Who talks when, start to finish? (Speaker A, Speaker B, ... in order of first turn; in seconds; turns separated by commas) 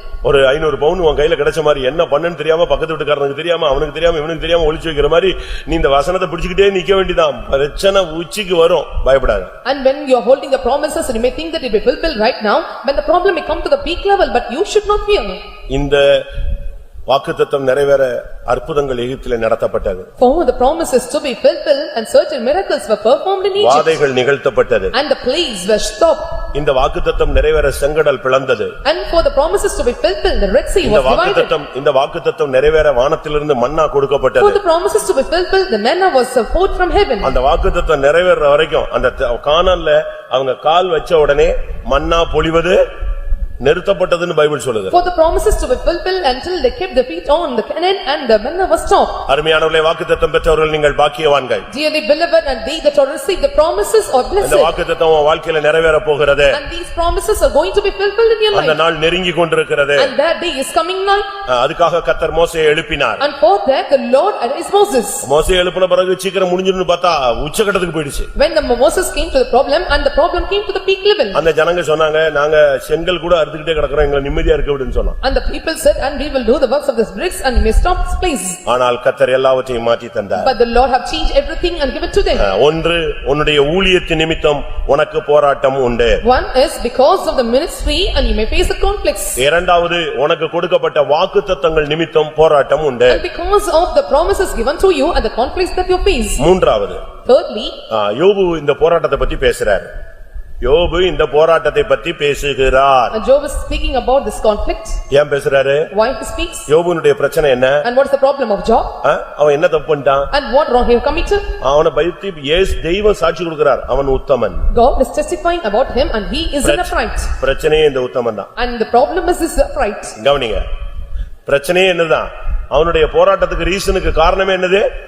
Speaker A: 0.2-9.5, Speaker B: 9.6-15.4, Speaker A: 15.7-16.2, Speaker A: 17.1-20.1, Speaker B: 20.2-24.0, Speaker A: 23.6-24.9, Speaker B: 24.9-26.3, Speaker A: 26.5-28.7, Speaker B: 28.8-31.5, Speaker A: 30.8-34.6, Speaker B: 34.4-37.3, Speaker A: 37.2-42.8, Speaker A: 43.6-45.0, Speaker B: 44.9-49.3, Speaker A: 49.3-51.7, Speaker B: 51.7-54.7, Speaker A: 54.4-56.6, Speaker B: 56.5-58.8, Speaker A: 58.5-60.1, Speaker B: 60.0-61.2, Speaker A: 61.5-63.2, Speaker B: 63.2-65.3, Speaker A: 65.2-68.3, Speaker B: 68.3-71.5, Speaker A: 71.3-75.2, Speaker B: 75.2-78.6, Speaker A: 78.7-80.5, Speaker B: 80.4-82.5, Speaker A: 82.3-86.2, Speaker B: 86.2-89.4, Speaker A: 89.4-93.2, Speaker B: 93.1-96.4, Speaker A: 96.4-97.0, Speaker B: 97.2-97.8, Speaker A: 97.9-99.9, Speaker A: 100.6-103.2, Speaker B: 103.1-105.0, Speaker A: 105.1-105.9, Speaker B: 105.9-106.7, Speaker A: 106.7-107.8, Speaker B: 107.8-109.0, Speaker A: 109.0-110.3, Speaker B: 110.3-111.5, Speaker A: 111.6-114.7, Speaker B: 114.7-117.3, Speaker A: 116.6-118.5, Speaker B: 118.6-120.2, Speaker A: 120.2-120.6, Speaker A: 121.5-124.9